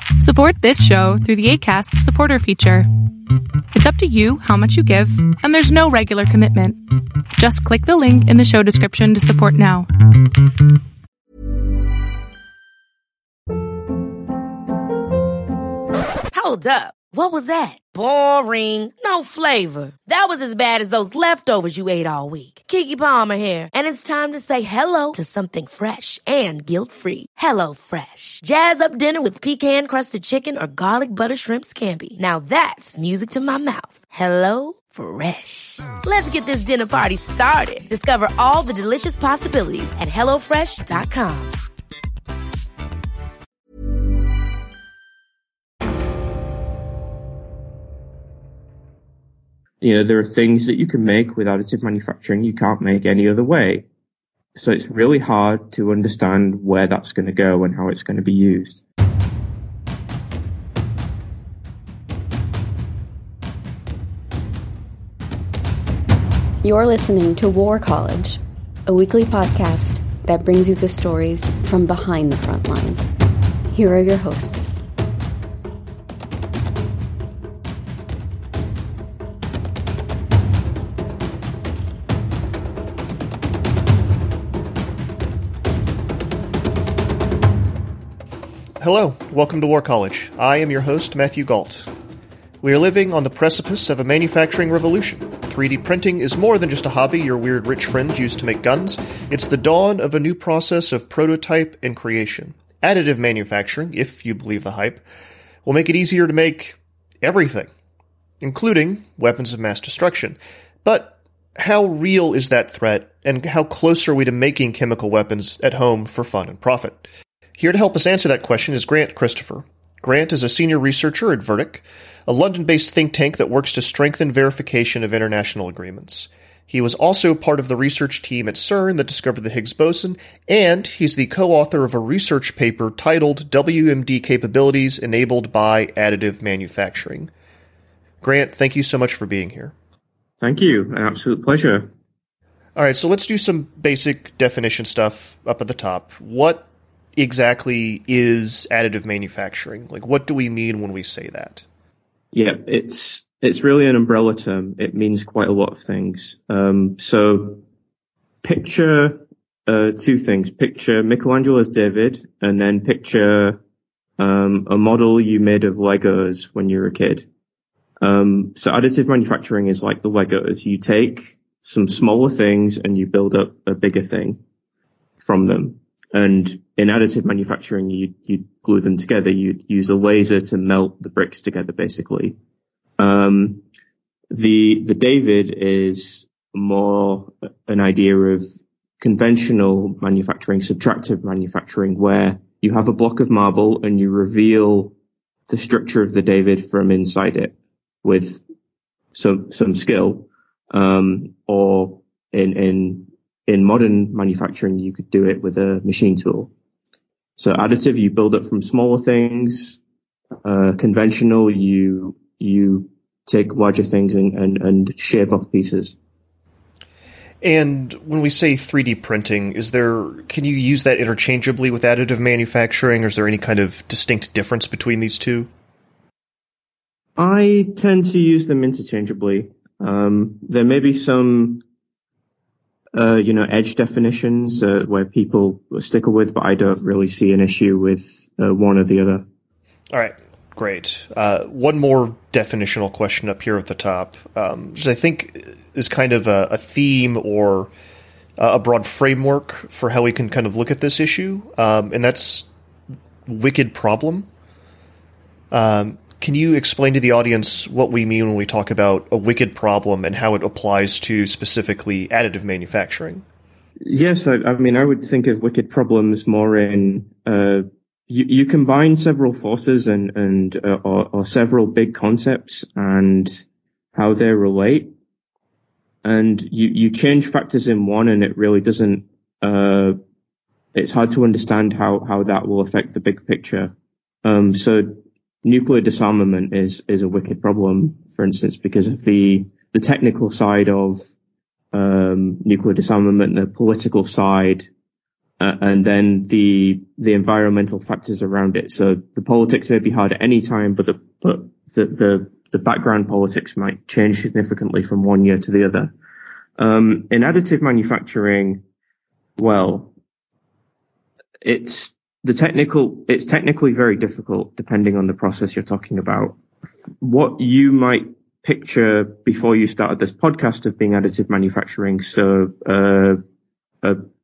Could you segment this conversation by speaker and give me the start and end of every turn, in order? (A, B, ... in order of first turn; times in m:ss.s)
0:00.2-0:02.9 A
0:03.7-0:06.8 A
0:07.4-0:09.9 A
0:16.3-0:41.6 B
0:49.8-0:53.8 C
0:54.6-0:58.8 C
1:06.6-1:13.1 D
1:13.7-1:14.7 D
1:28.8-1:31.9 E
1:32.6-1:45.0 E
1:45.6-1:47.7 E
1:48.4-2:17.3 E
2:18.2-2:19.7 E
2:20.4-2:21.9 C
2:22.8-2:31.6 E
2:32.3-2:37.6 C
2:38.4-2:43.6 C
2:44.2-2:47.2 C
2:48.0-2:54.4 C
2:55.2-3:02.4 C
3:03.0-3:03.6 C
3:04.3-3:08.5 C
3:09.0-3:14.9 C
3:15.5-3:18.4 C
3:19.1-3:26.5 C
3:27.4-3:29.8 C
3:30.4-3:36.0 C
3:37.4-3:45.5 E
3:47.2-3:51.6 C
3:52.9-3:59.2 C
3:59.9-4:07.7 E
4:08.4-4:12.5 E
4:13.2-4:14.3 E
4:15.5-4:23.2 E
4:23.8-4:33.4 C
4:33.9-4:34.9 C
4:36.0-4:40.0 C
4:40.7-4:43.7 C
4:44.2-4:51.1 C
4:51.7-4:54.7 C
4:55.4-5:05.9 C
5:06.6-5:08.6 C
5:09.4-5:09.9 C
5:11.4-5:16.4 C
5:17.0-5:23.2 C